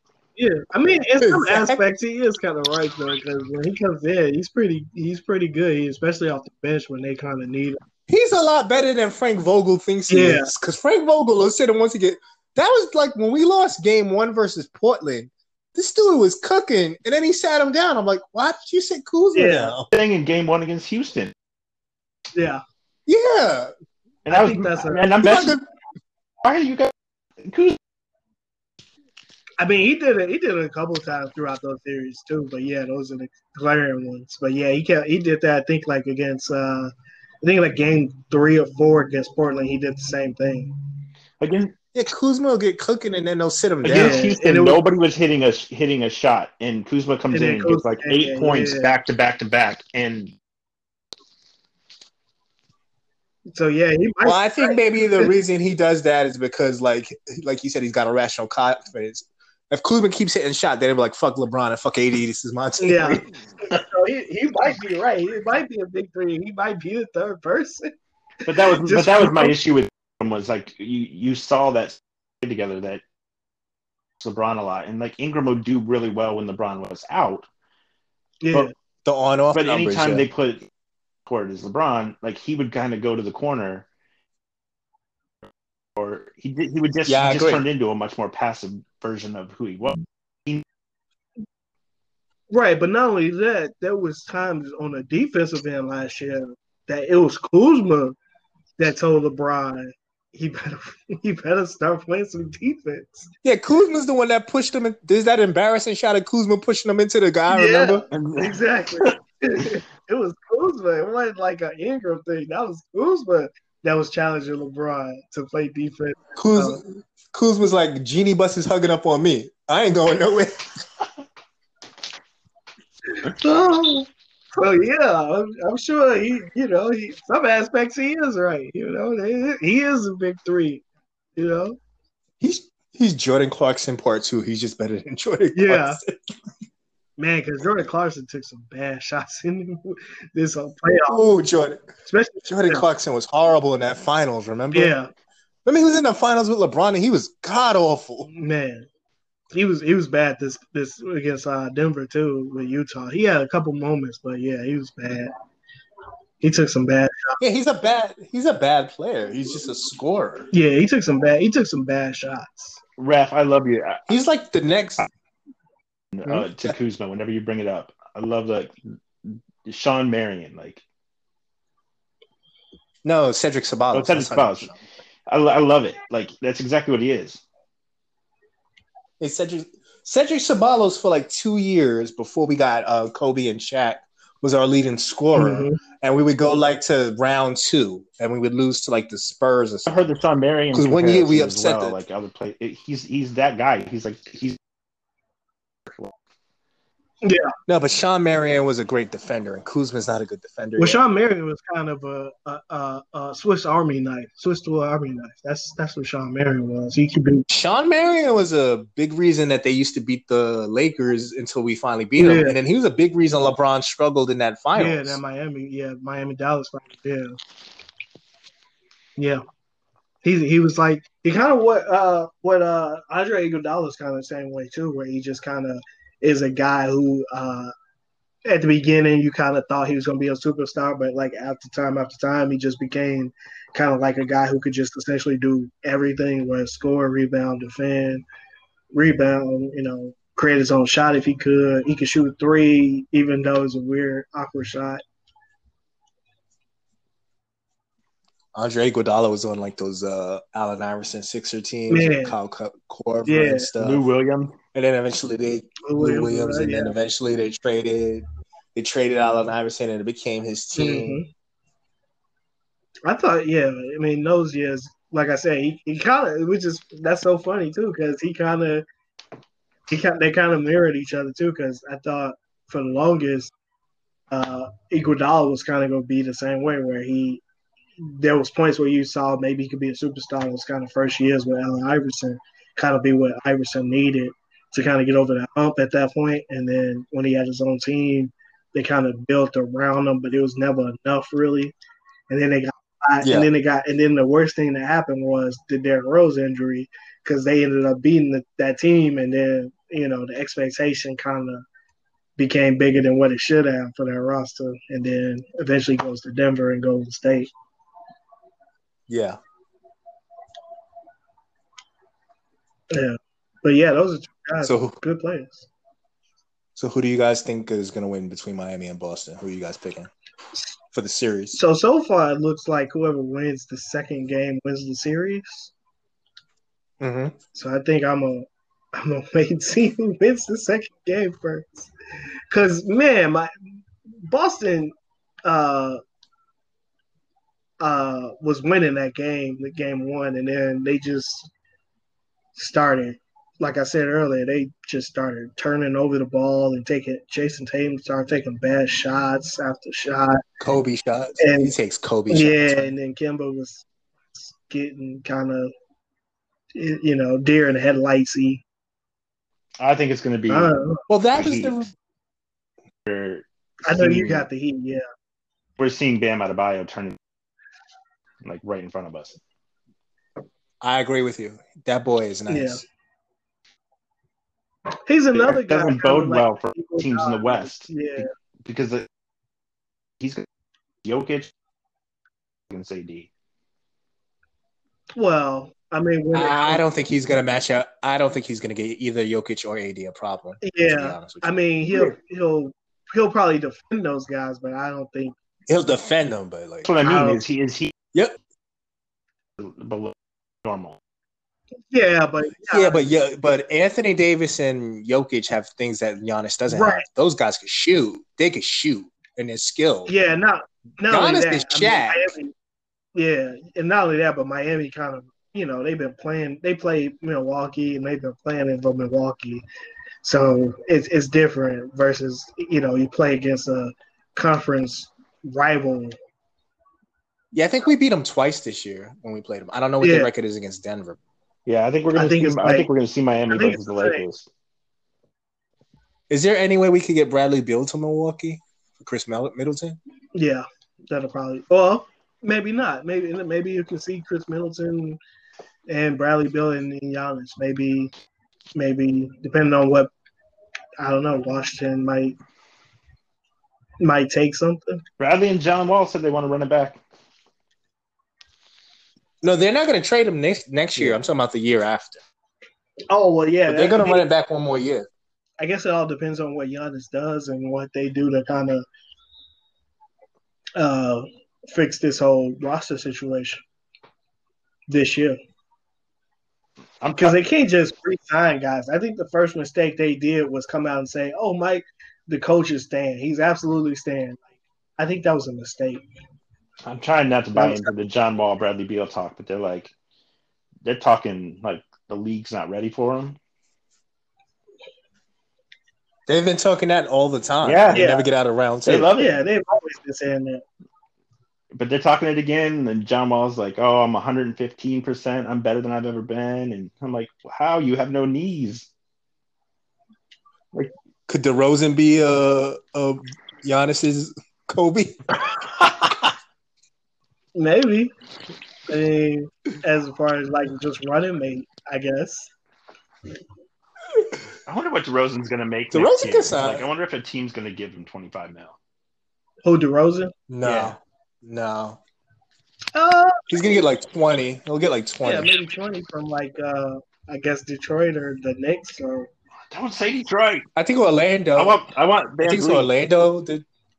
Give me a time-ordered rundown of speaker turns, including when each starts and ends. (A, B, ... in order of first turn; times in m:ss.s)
0:00.4-0:07.8 A
0:01.2-0:01.8 B
0:08.1-0:19.9 B
0:10.1-0:10.5 A
0:19.3-0:19.7 A
0:19.9-0:21.3 C
0:22.3-0:22.6 A
0:23.1-0:23.7 B
0:24.2-0:25.6 C
0:24.3-0:25.1 A
0:25.2-0:25.6 B
0:26.4-0:26.9 C
0:27.4-0:27.8 C
0:29.6-0:36.9 A
0:37.4-0:40.7 A
0:41.4-0:41.7 C
0:41.9-0:44.3 B
0:43.8-0:50.3 C
0:43.9-0:44.8 A
0:47.3-0:48.9 A
0:53.5-0:55.3 A
0:54.2-1:03.3 B
1:02.8-1:07.9 A
1:08.4-1:13.0 C
1:08.5-1:09.5 A
1:14.2-1:17.5 C
1:18.4-1:18.7 A
1:19.0-1:20.2 B
1:19.5-1:20.7 C
1:21.2-1:23.9 C
1:26.0-1:30.6 C
1:27.0-1:27.6 B
1:32.5-1:38.2 A
1:38.8-1:43.3 A
1:43.4-1:48.0 B
1:47.5-1:56.8 A
1:48.1-1:49.2 C
1:56.4-2:00.6 B
2:03.1-2:10.8 A
2:11.4-2:11.8 A
2:12.4-2:16.1 B
2:15.5-2:16.0 A
2:17.2-2:21.2 A
2:21.1-2:21.8 B
2:22.1-2:22.8 A
2:22.5-2:24.9 B
2:24.7-2:25.1 A
2:25.6-2:28.3 B
2:28.3-2:28.9 A
2:29.5-2:35.3 A
2:36.4-2:37.4 A
2:37.4-2:40.5 B
2:40.5-2:42.8 A
2:43.0-2:44.0 C
2:44.1-2:45.1 B
2:46.1-2:50.8 C
2:46.2-2:46.7 B
2:53.0-2:54.8 B
2:53.9-2:54.7 C
2:55.3-2:57.4 C
2:59.2-3:10.0 B
3:05.4-3:05.8 A
3:09.8-3:14.6 C
3:10.7-3:12.0 B
3:15.8-3:16.1 C
3:17.2-3:17.5 A
3:17.7-3:21.0 B
3:20.8-3:27.4 A
3:27.5-3:35.2 B
3:32.2-3:32.6 A
3:34.7-3:37.4 A
3:39.2-3:39.4 A
3:40.2-3:47.7 A
3:48.4-3:58.2 A
3:58.9-4:05.0 A
4:08.5-4:14.0 B
4:11.9-4:12.3 A
4:13.3-4:13.7 A
4:13.8-4:14.6 C
4:14.7-4:21.2 B
4:15.8-4:16.9 A
4:20.7-4:21.3 A
4:23.0-4:28.8 A
4:29.9-4:33.5 A
4:34.3-4:37.4 A
4:38.0-4:51.7 A
4:52.3-5:01.6 A
4:53.2-4:53.5 B
5:02.4-5:07.5 A
5:09.1-5:09.4 B
5:12.9-5:15.7 A
5:14.6-5:15.0 B
5:16.8-5:20.1 B
5:20.9-5:21.6 B
5:21.5-5:25.7 A
5:27.0-5:27.4 B
5:27.5-5:31.9 A
5:32.5-5:33.5 A
5:34.2-5:34.9 A
5:35.4-5:36.0 A
5:37.8-5:41.5 A
5:42.5-5:50.4 A
5:50.6-5:52.9 B
5:51.4-5:51.7 A
5:52.3-5:53.8 A
5:54.4-5:55.7 A
5:56.7-5:58.6 A
5:59.8-6:00.7 C
6:00.5-6:01.0 A
6:01.1-6:01.9 B
6:01.3-6:01.7 C
6:03.0-6:04.4 C
6:03.8-6:05.0 A
6:05.8-6:07.2 C
6:08.4-6:09.4 C
6:10.8-6:12.8 B
6:12.5-6:12.8 A
6:15.1-6:18.3 A
6:15.3-6:19.1 C
6:21.0-6:21.5 C
6:22.7-6:23.3 C
6:25.2-6:26.8 A
6:26.3-6:32.1 B
6:30.6-6:35.4 A
6:35.7-6:36.9 B
6:36.8-6:37.9 C
6:37.0-6:37.4 A
6:39.6-6:41.0 C
6:41.9-6:43.0 A
6:42.7-6:50.1 B
6:46.7-6:47.0 A
6:50.1-6:52.5 A
6:51.1-6:52.3 B
6:53.1-6:59.6 A
7:00.2-7:06.1 A
7:07.5-7:11.2 B
7:10.0-7:10.3 A
7:11.6-7:14.5 C
7:12.1-7:12.9 A
7:13.5-7:14.2 A
7:16.3-7:20.0 B
7:20.3-7:25.2 A
7:25.9-7:28.1 A
7:28.7-7:30.1 A
7:31.0-7:32.3 A
7:34.0-7:35.0 A
7:35.2-7:37.0 C
7:39.4-7:42.2 B
7:41.0-7:41.2 C
7:43.1-7:44.2 A
7:43.7-7:45.0 B
7:45.6-7:48.8 A
7:50.8-7:53.6 A
7:54.9-7:55.4 A
7:57.0-7:57.4 C
7:57.2-8:04.4 A
8:05.0-8:06.0 A
8:06.8-8:09.9 C
8:07.5-8:07.9 A
8:10.8-8:13.4 C
8:16.3-8:19.1 B
8:17.6-8:18.0 C
8:17.9-8:18.3 A
8:18.8-8:19.4 C
8:19.2-8:20.6 A
8:21.7-8:28.9 C
8:31.3-8:35.5 B
8:37.5-8:38.1 A
8:38.9-8:42.5 A
8:44.6-8:48.8 C
8:45.9-8:46.8 B
8:49.6-8:50.3 A
8:50.5-8:52.0 B
8:50.6-8:51.0 C
8:52.9-8:53.5 A
8:53.5-8:55.5 B
8:55.2-8:59.3 A
8:59.7-9:00.6 C
9:00.8-9:01.8 B
9:01.6-9:02.9 C
9:02.4-9:03.6 B